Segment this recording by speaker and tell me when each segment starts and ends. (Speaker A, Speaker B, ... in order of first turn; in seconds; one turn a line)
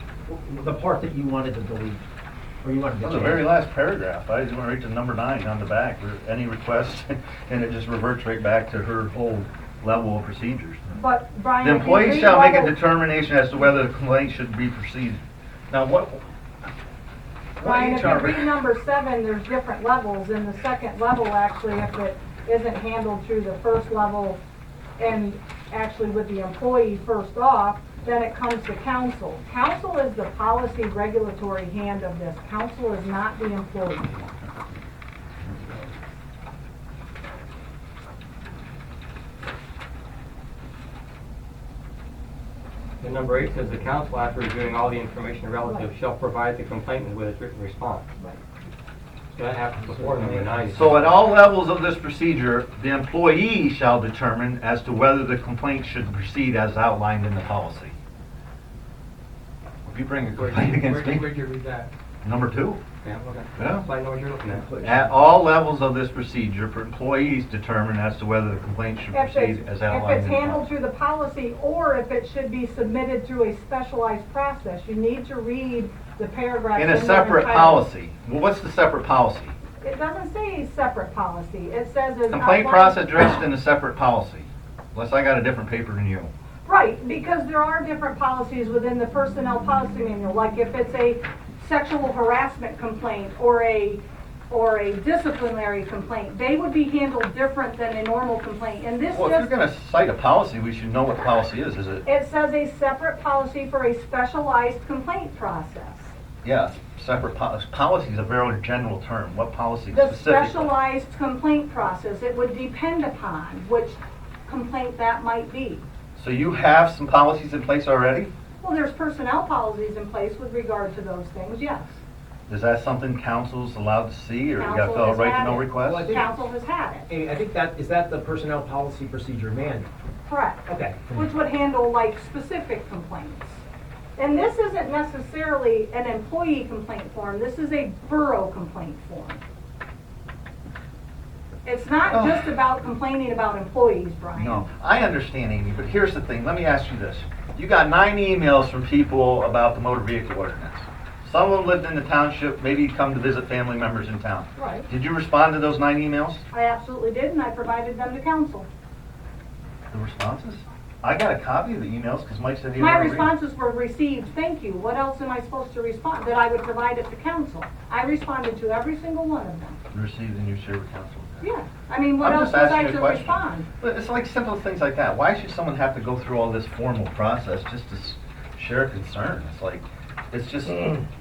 Speaker A: 0.2-2.0
Speaker A: 2.6-3.5
Speaker B: 3.0-10.8
Speaker C: 10.9-12.8
Speaker B: 11.6-16.2
Speaker B: 17.6-18.5
Speaker C: 17.6-24.4
Speaker C: 25.0-34.2
Speaker D: 43.0-48.0
Speaker D: 49.3-51.1
Speaker A: 49.8-50.6
Speaker B: 50.7-57.9
Speaker B: 59.9-61.3
Speaker D: 60.3-61.9
Speaker B: 62.2-62.8
Speaker D: 63.0-64.8
Speaker B: 63.6-63.9
Speaker A: 64.5-65.1
Speaker B: 64.8-70.7
Speaker C: 69.1-77.9
Speaker B: 76.7-79.5
Speaker C: 79.8-83.2
Speaker B: 82.3-86.3
Speaker C: 86.7-99.5
Speaker B: 99.1-102.0
Speaker C: 102.0-106.1
Speaker B: 106.4-110.7
Speaker C: 109.9-115.8
Speaker B: 116.2-118.3
Speaker C: 118.6-122.0
Speaker B: 122.5-126.1
Speaker C: 124.6-127.1
Speaker A: 125.8-126.3
Speaker A: 127.1-129.9
Speaker C: 130.3-133.6
Speaker A: 130.7-131.3
Speaker C: 134.2-139.4
Speaker C: 141.6-144.7
Speaker B: 142.1-142.5
Speaker B: 144.3-156.4
Speaker C: 154.6-154.9
Speaker C: 156.5-158.7
Speaker B: 159.9-163.3
Speaker C: 162.8-169.8
Speaker B: 169.9-171.5
Speaker C: 171.4-173.7
Speaker B: 172.2-181.0